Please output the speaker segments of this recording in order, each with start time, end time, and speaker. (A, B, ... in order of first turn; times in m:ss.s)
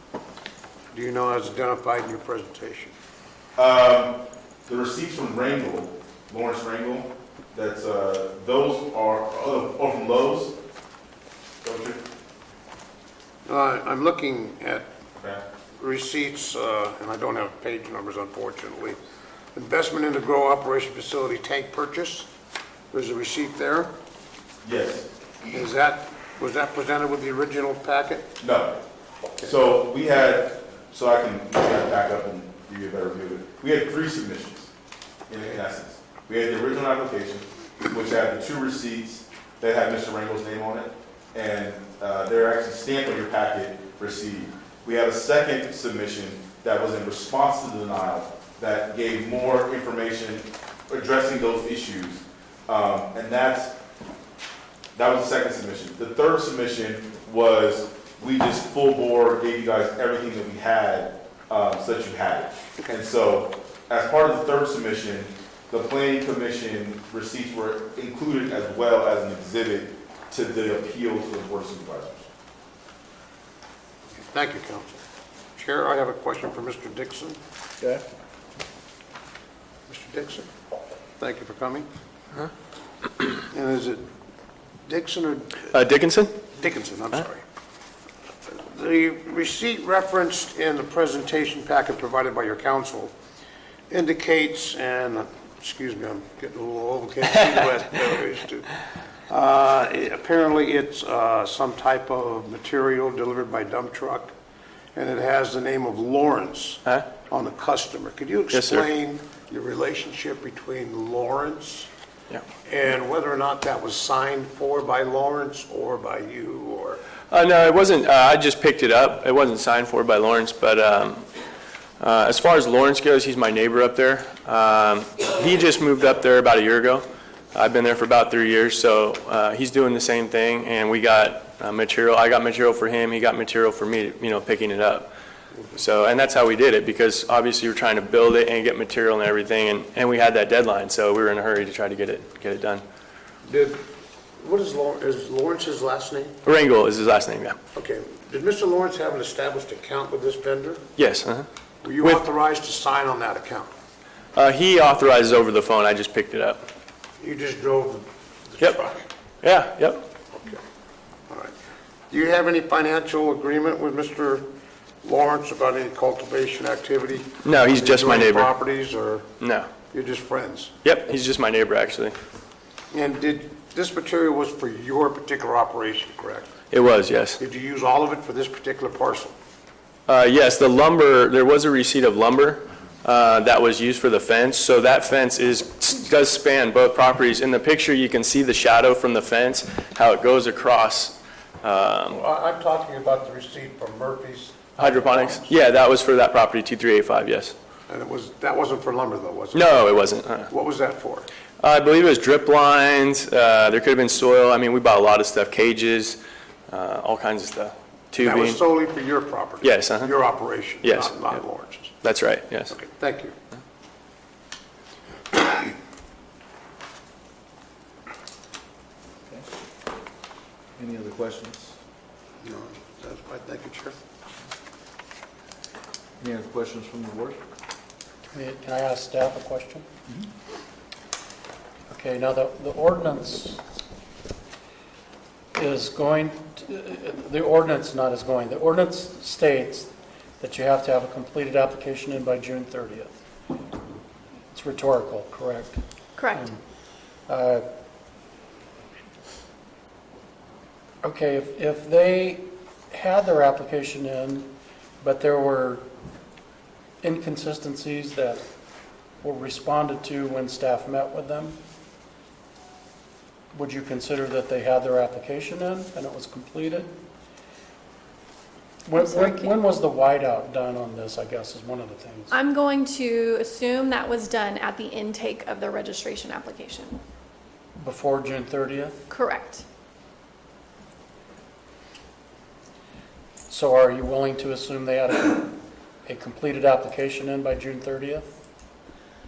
0:00.9-0:02.9 A
0:03.6-0:04.1 B
0:04.7-0:10.5 B
0:11.6-0:12.0 B
0:13.4-0:14.9 A
0:15.8-0:19.0 A
0:19.5-0:22.3 A
0:22.9-0:23.9 A
0:24.6-0:25.1 B
0:25.5-0:28.2 A
0:28.4-0:28.8 B
0:29.4-0:34.7 B
0:35.3-0:53.8 B
0:54.9-1:12.3 B
1:14.3-1:15.0 A
1:15.6-1:17.4 A
1:19.9-1:20.5 A
1:21.2-1:21.9 A
1:23.4-1:24.0 A
1:24.8-1:25.7 A
1:25.7-1:26.3 C
1:26.5-1:27.4 A
1:28.5-1:33.1 A
1:33.9-1:38.8 A
1:39.3-1:44.3 A
1:44.9-1:51.9 A
1:48.5-1:48.9 C
1:52.6-1:57.0 A
1:57.3-2:01.2 C
2:02.0-2:15.1 C
2:15.7-2:22.8 C
2:23.4-2:23.8 A
2:24.4-2:26.4 A
2:26.4-2:27.6 C
2:27.7-2:30.8 A
2:31.0-2:31.5 C
2:31.8-2:33.7 A
2:34.3-2:36.6 C
2:37.2-2:39.0 A
2:39.4-2:40.0 C
2:41.3-2:41.5 A
2:42.1-2:44.4 A
2:45.0-2:49.3 A
2:47.4-2:48.5 C
2:49.4-2:49.7 C
2:49.9-2:50.7 A
2:50.8-2:52.1 C
2:52.9-2:56.5 A
2:56.7-2:57.4 C
2:57.4-2:59.3 A
3:00.1-3:12.2 C
3:12.1-3:15.6 A
3:14.8-3:17.5 C
3:17.9-3:21.3 A
3:19.5-3:20.5 C
3:21.6-3:26.2 C
3:26.7-3:28.6 C
3:28.2-3:31.9 A
3:29.6-3:30.2 C
3:30.8-3:31.3 C
3:32.0-3:32.7 C
3:32.7-3:33.3 A
3:40.8-3:41.8 D
3:42.4-3:44.0 A
3:46.2-3:47.4 D
3:48.3-3:49.8 E
3:51.9-3:53.6 E
3:55.5-4:03.2 E
4:04.5-4:05.8 E
4:06.2-4:06.4 F
4:07.3-4:07.6 E
4:11.0-4:14.5 E
4:15.0-4:15.8 E
4:17.0-4:18.4 E
4:19.2-4:21.6 E
4:23.5-4:26.9 E
4:28.8-4:32.3 E
4:29.0-4:29.5 F
4:32.3-4:37.0 F
4:37.8-4:39.0 E
4:39.1-4:39.6 F
4:43.5-4:48.3 E